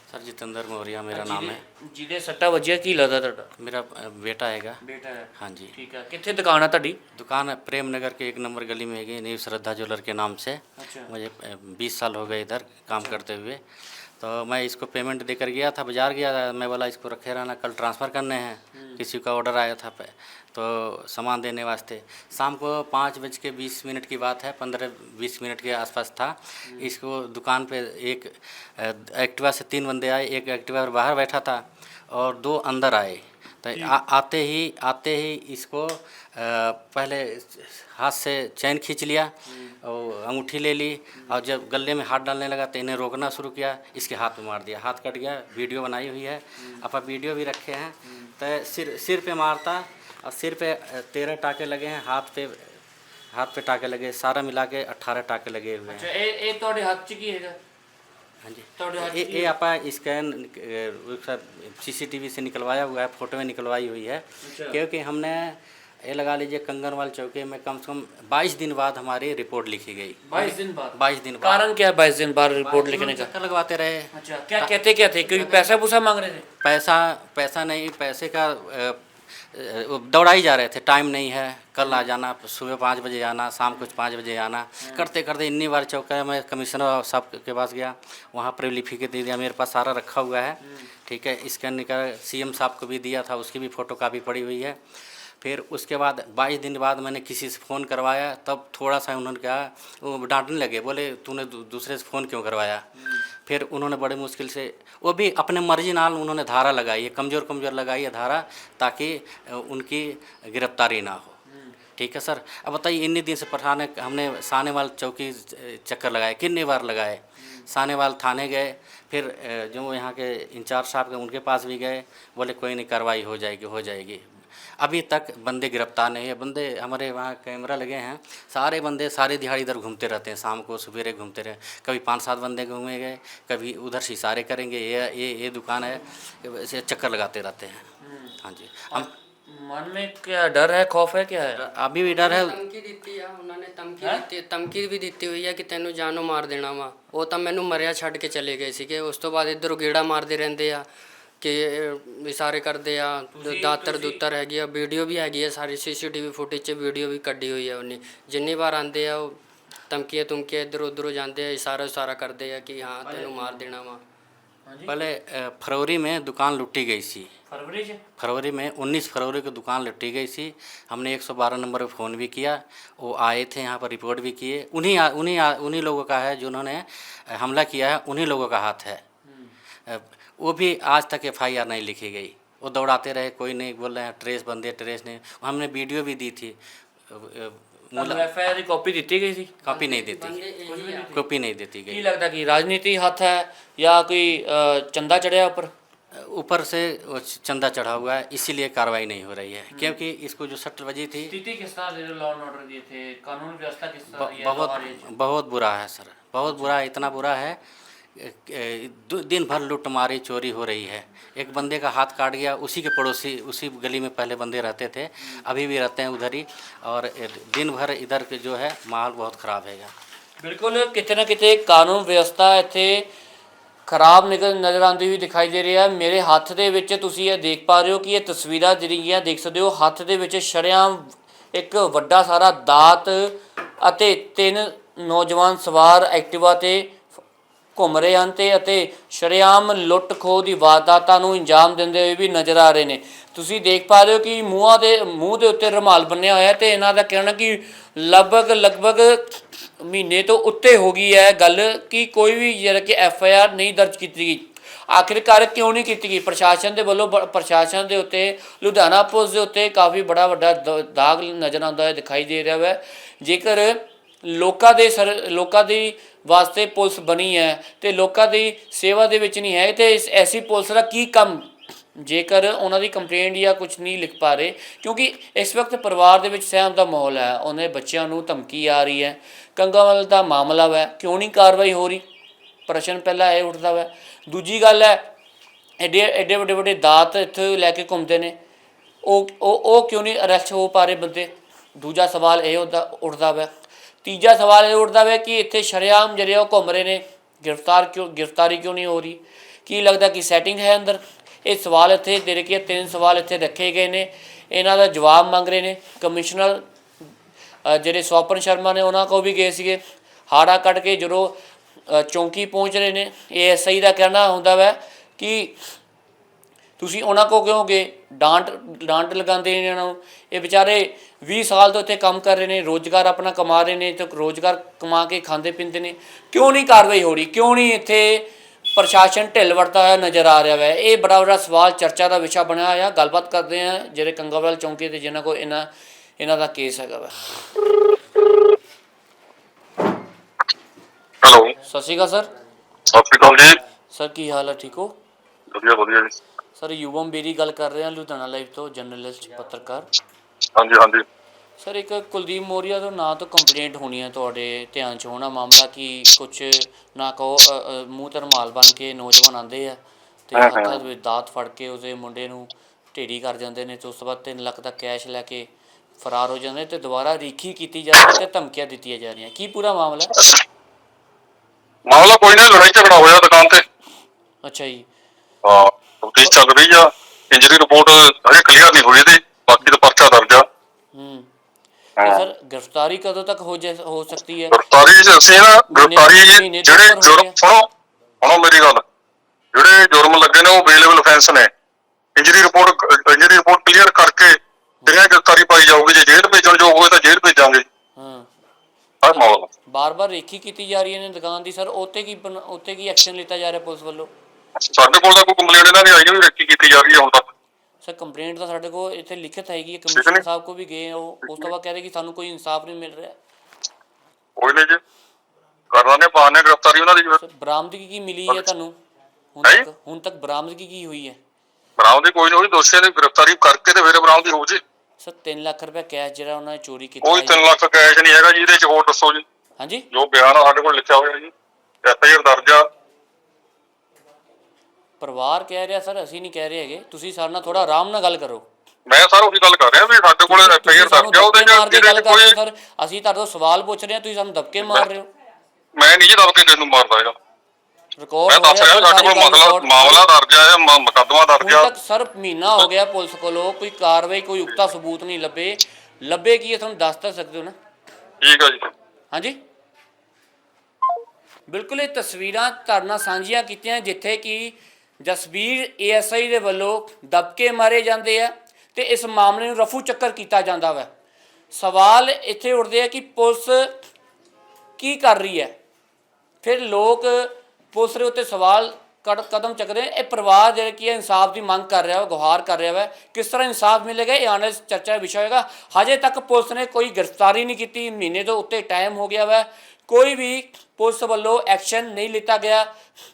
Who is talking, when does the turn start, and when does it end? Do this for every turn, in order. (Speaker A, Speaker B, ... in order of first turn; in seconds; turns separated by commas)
Speaker A: 0.1-1.6, Speaker B: 1.1-3.5, Speaker A: 3.6-4.8, Speaker B: 4.8-7.0, Speaker A: 5.4-5.8, Speaker A: 7.1-52.8, Speaker B: 10.8-11.1, Speaker B: 12.9-13.2, Speaker B: 18.7-19.0, Speaker B: 39.5-39.8, Speaker B: 46.6-46.8, Speaker B: 48.0-48.3, Speaker A: 53.3-56.1, Speaker B: 55.9-57.6, Speaker A: 58.4-71.7, Speaker B: 58.8-59.5, Speaker B: 64.4-64.8, Speaker B: 70.3-73.3, Speaker A: 72.6-74.7, Speaker B: 74.1-76.5, Speaker A: 75.3-75.7, Speaker A: 76.6-94.8, Speaker B: 84.8-85.1, Speaker B: 90.6-90.9, Speaker A: 95.4-102.9, Speaker B: 103.0-103.2, Speaker A: 103.5-111.4, Speaker B: 111.5-111.8, Speaker A: 112.0-124.2, Speaker B: 117.4-117.7, Speaker A: 124.8-137.9, Speaker B: 138.0-138.4, Speaker A: 138.4-139.1, Speaker B: 138.9-141.6, Speaker A: 141.6-142.6, Speaker C: 142.1-150.9, Speaker C: 151.4-159.4, Speaker B: 153.4-154.2, Speaker C: 159.9-164.0, Speaker B: 163.1-163.5, Speaker B: 164.7-164.9, Speaker A: 164.9-167.3, Speaker B: 167.5-168.0, Speaker A: 168.2-179.0, Speaker B: 179.2-179.5, Speaker A: 179.9-186.6, Speaker A: 187.1-188.2, Speaker B: 188.0-189.6, Speaker A: 189.6-190.4, Speaker C: 189.7-191.2, Speaker B: 190.7-191.3, Speaker A: 191.1-192.0, Speaker B: 191.9-195.7, Speaker A: 196.1-201.3, Speaker B: 199.7-200.0, Speaker B: 201.3-205.1, Speaker A: 204.1-207.6, Speaker B: 206.5-206.8, Speaker A: 208.2-219.9, Speaker B: 220.4-223.1, Speaker B: 223.9-237.0, Speaker B: 237.8-282.0, Speaker B: 282.7-285.1, Speaker B: 285.8-288.4, Speaker B: 289.0-293.5, Speaker B: 294.0-306.6, Speaker B: 307.6-315.6, Speaker B: 316.8-337.2, Speaker D: 341.2-341.6, Speaker B: 341.6-342.3, Speaker D: 342.9-343.6, Speaker B: 343.9-344.9, Speaker D: 345.5-346.2, Speaker B: 346.6-349.9, Speaker D: 350.6-351.0, Speaker B: 351.6-365.5, Speaker D: 360.4-360.8, Speaker B: 366.0-370.1, Speaker D: 371.9-373.6, Speaker B: 374.4-374.9, Speaker D: 375.4-380.4, Speaker B: 380.9-381.3, Speaker B: 382.0-384.6, Speaker D: 384.5-387.7, Speaker B: 385.7-387.4, Speaker D: 388.2-388.8, Speaker D: 389.5-391.5, Speaker D: 392.2-397.6, Speaker B: 398.0-398.3, Speaker D: 399.0-399.5, Speaker B: 399.1-404.1, Speaker D: 404.7-407.3, Speaker B: 407.8-413.2, Speaker D: 409.9-410.2, Speaker D: 414.4-414.8, Speaker D: 415.7-417.2, Speaker B: 417.2-418.8, Speaker B: 419.4-421.2, Speaker D: 421.8-424.6, Speaker B: 425.0-427.4, Speaker D: 427.0-429.2, Speaker B: 429.6-429.9, Speaker D: 429.9-431.3, Speaker D: 431.8-432.6, Speaker B: 435.0-438.5, Speaker D: 438.9-442.4, Speaker B: 440.3-445.1, Speaker D: 445.8-447.1, Speaker B: 448.0-450.0, Speaker D: 448.3-451.7, Speaker B: 451.4-457.6, Speaker D: 458.2-458.7, Speaker B: 459.1-459.4, Speaker B: 461.5-470.9, Speaker B: 471.5-473.8, Speaker B: 474.8-475.6, Speaker B: 476.4-492.7